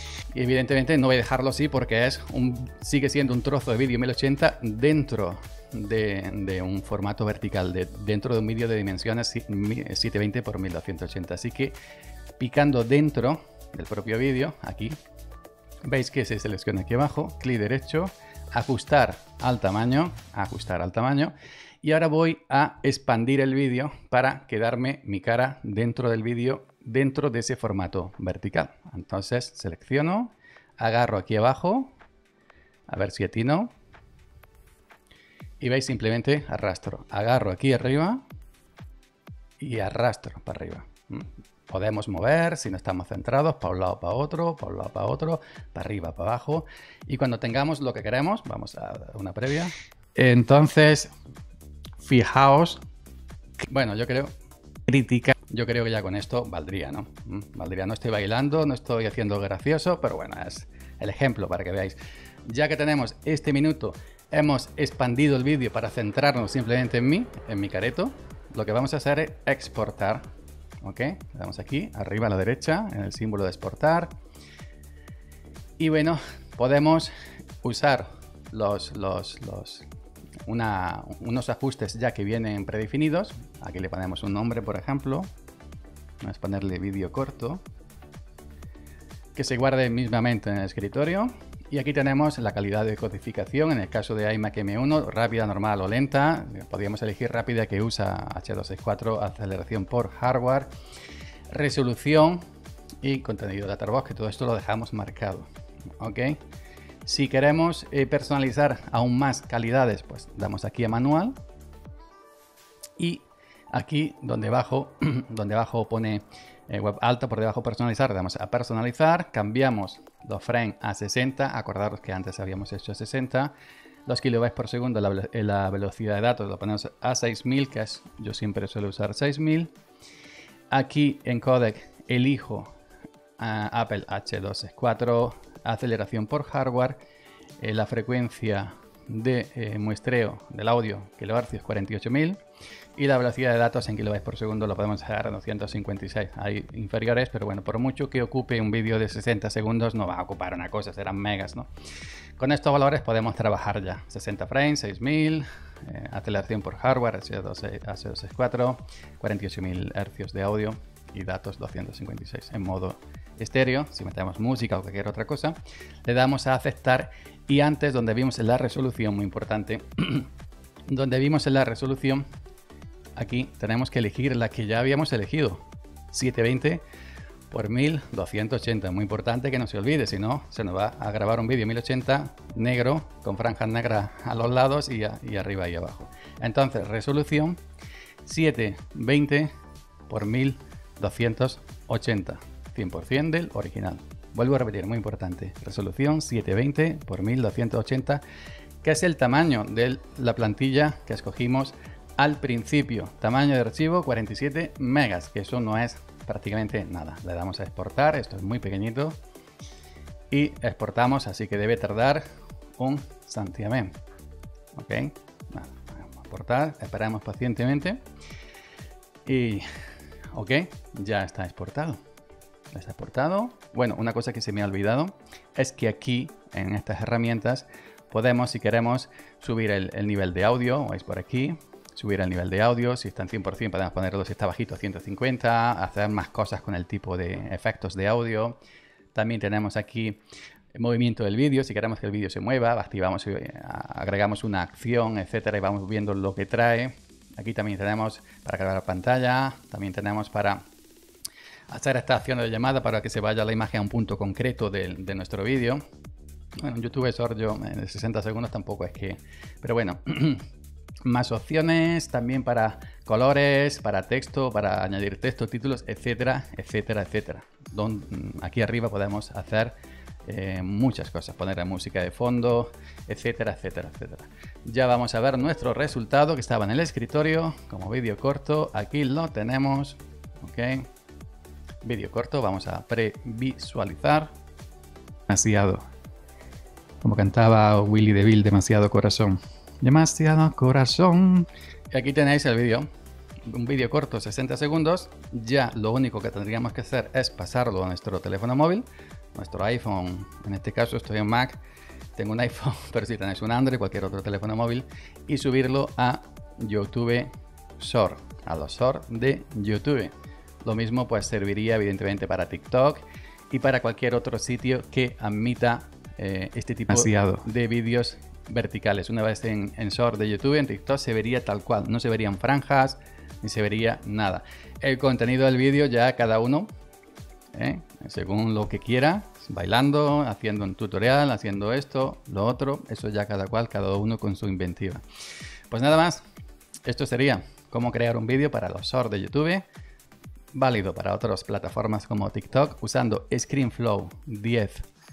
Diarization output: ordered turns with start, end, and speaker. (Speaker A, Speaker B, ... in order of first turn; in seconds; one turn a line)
Speaker A: 0.3-11.8
Speaker A: 12.4-15.0
Speaker A: 15.8-31.9
Speaker A: 32.9-33.7
Speaker A: 35.6-38.2
Speaker A: 39.6-51.1
Speaker A: 52.0-52.8
Speaker A: 53.6-54.3
Speaker A: 54.9-70.2
Speaker A: 70.8-74.1
Speaker A: 75.8-77.1
Speaker A: 77.6-79.9
Speaker A: 80.5-85.3
Speaker A: 86.2-87.6
Speaker A: 89.3-100.7
Speaker A: 101.5-102.4
Speaker A: 103.0-105.5
Speaker A: 106.0-106.4
Speaker A: 107.0-111.3
Speaker A: 113.0-123.5
Speaker A: 124.0-129.7
Speaker A: 130.7-132.7
Speaker A: 133.4-137.0
Speaker A: 137.6-142.4
Speaker A: 142.9-151.7
Speaker A: 152.4-170.3
Speaker A: 170.9-172.2
Speaker A: 173.2-176.8
Speaker A: 177.5-187.6
Speaker A: 188.2-189.5
Speaker A: 190.1-198.2
Speaker A: 198.8-209.2
Speaker A: 210.3-212.2
Speaker A: 212.8-213.9
Speaker A: 214.7-218.0
Speaker A: 219.2-219.7
Speaker A: 220.3-222.0
Speaker A: 222.7-238.6
Speaker A: 239.1-240.2
Speaker A: 240.7-250.7
Speaker A: 251.7-255.8
Speaker A: 256.6-260.4
Speaker A: 261.0-280.9
Speaker A: 281.8-284.3
Speaker A: 285.3-285.8
Speaker A: 287.0-292.9
Speaker A: 293.4-301.6
Speaker A: 302.1-310.1
Speaker A: 310.6-326.7
Speaker A: 327.5-335.0
Speaker A: 335.7-336.2
Speaker A: 336.8-339.6
Speaker A: 340.5-344.9